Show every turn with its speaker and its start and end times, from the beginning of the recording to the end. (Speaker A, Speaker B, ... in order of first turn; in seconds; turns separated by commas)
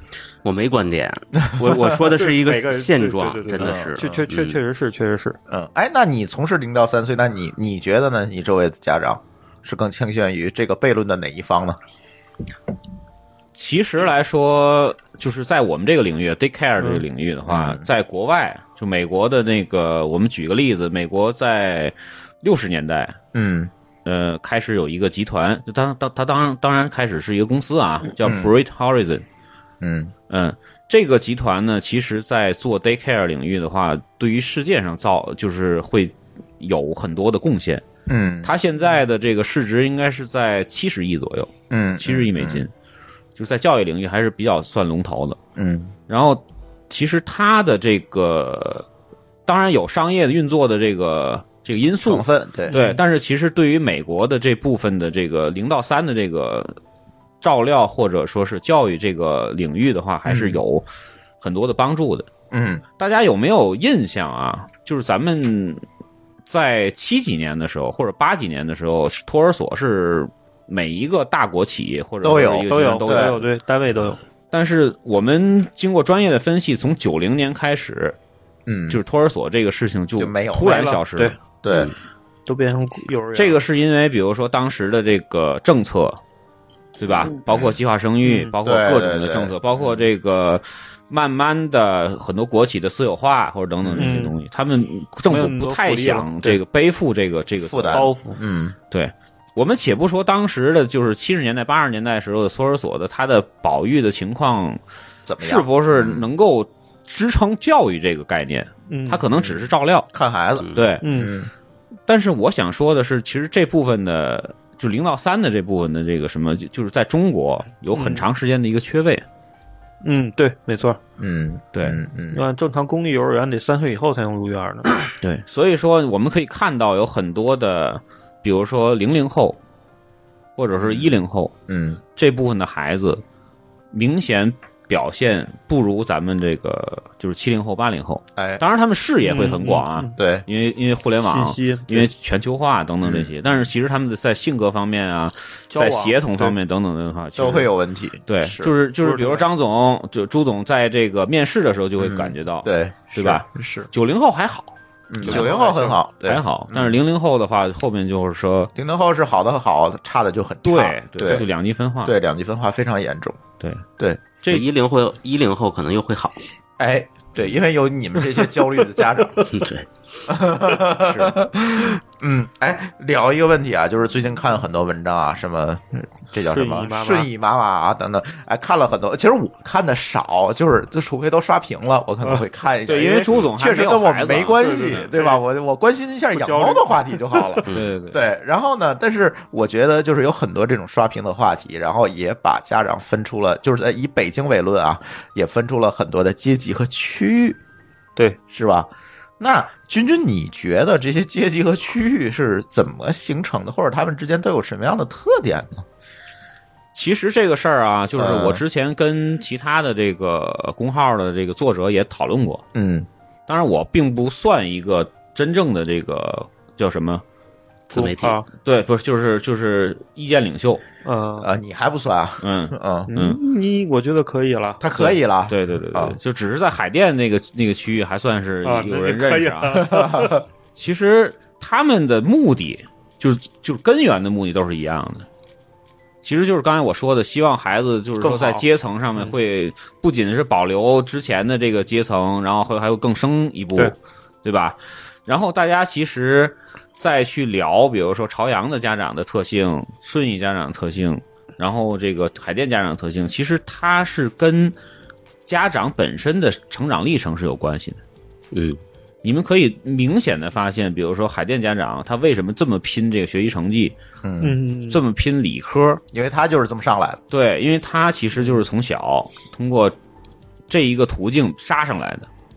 Speaker A: 0.4-4.6, Speaker B: 1.5-2.0, Speaker C: 2.1-5.4, Speaker B: 3.5-4.2, Speaker B: 5.5-11.8, Speaker D: 13.6-23.2, Speaker B: 17.5-17.8, Speaker B: 23.3-23.7, Speaker D: 24.0-29.2, Speaker B: 28.2-28.5, Speaker B: 29.8-30.1, Speaker D: 30.3-37.9, Speaker B: 38.1-38.5, Speaker D: 38.4-42.7, Speaker B: 41.7-42.6, Speaker D: 43.4-45.4, Speaker B: 45.5-45.9, Speaker D: 46.1-48.9, Speaker D: 49.5-56.8, Speaker B: 52.0-52.8, Speaker C: 52.7-53.0, Speaker D: 57.4-60.8, Speaker B: 60.2-60.6, Speaker D: 61.4-62.3, Speaker B: 62.5-62.8, Speaker D: 63.0-65.8, Speaker D: 66.5-73.5, Speaker B: 72.2-73.4, Speaker C: 72.7-74.2, Speaker D: 74.5-78.2, Speaker B: 78.7-79.0, Speaker D: 78.9-81.3, Speaker B: 80.2-81.0, Speaker C: 80.6-81.3, Speaker B: 81.6-81.9, Speaker C: 82.5-83.6, Speaker D: 83.3-86.2, Speaker D: 87.0-98.1, Speaker B: 87.5-87.8, Speaker C: 88.2-88.5, Speaker B: 88.6-90.1, Speaker B: 93.8-94.2, Speaker C: 94.0-94.3, Speaker C: 95.3-96.6, Speaker B: 97.6-98.7, Speaker C: 97.9-98.4, Speaker D: 98.9-104.8, Speaker B: 105.2-106.2, Speaker D: 105.4-110.1, Speaker C: 108.9-109.2, Speaker B: 109.3-111.5, Speaker A: 110.6-110.9, Speaker D: 110.7-111.0, Speaker C: 111.0-111.4, Speaker D: 112.1-119.2, Speaker C: 117.9-118.2, Speaker C: 120.0-121.0, Speaker B: 121.2-122.4, Speaker D: 121.7-122.0, Speaker C: 122.3-124.9, Speaker D: 125.2-129.6, Speaker D: 130.6-131.5, Speaker B: 130.8-131.1, Speaker B: 131.7-132.0, Speaker D: 132.2-133.2, Speaker D: 133.9-147.7, Speaker B: 138.3-138.6, Speaker C: 139.2-140.1, Speaker B: 140.2-140.4, Speaker C: 141.2-142.1, Speaker B: 143.0-143.3, Speaker C: 145.7-146.5, Speaker B: 147.3-148.7, Speaker D: 148.3-155.5, Speaker C: 149.0-149.5, Speaker B: 152.0-153.9, Speaker B: 155.1-157.0, Speaker C: 155.2-156.0, Speaker D: 156.2-158.7, Speaker B: 158.7-161.4, Speaker D: 160.6-162.1, Speaker B: 162.0-163.4, Speaker D: 163.6-163.8, Speaker A: 164.5-166.4, Speaker B: 166.8-169.4, Speaker A: 169.5-169.9, Speaker B: 170.3-197.6, Speaker D: 171.1-171.4, Speaker C: 176.4-177.3, Speaker D: 182.8-185.1, Speaker C: 184.6-185.4, Speaker C: 186.3-187.7, Speaker D: 187.7-188.2, Speaker B: 198.5-198.9, Speaker B: 199.4-205.8, Speaker D: 206.9-212.6, Speaker B: 208.2-208.6, Speaker B: 212.7-213.1, Speaker D: 213.5-217.2, Speaker A: 217.9-218.4, Speaker C: 217.9-218.4, Speaker D: 218.6-220.8, Speaker C: 221.0-221.5, Speaker B: 221.4-223.1, Speaker D: 222.4-223.4, Speaker C: 223.1-224.8, Speaker B: 224.8-226.2, Speaker D: 225.0-230.0, Speaker C: 228.6-230.4, Speaker B: 229.8-230.4, Speaker D: 230.7-235.2, Speaker D: 236.2-254.7, Speaker C: 238.2-238.7, Speaker D: 255.5-258.0, Speaker A: 258.5-258.8, Speaker D: 259.2-263.9, Speaker B: 264.2-264.6, Speaker C: 264.4-265.0, Speaker D: 264.9-266.0, Speaker B: 266.1-267.2, Speaker D: 267.3-269.9, Speaker D: 270.7-272.3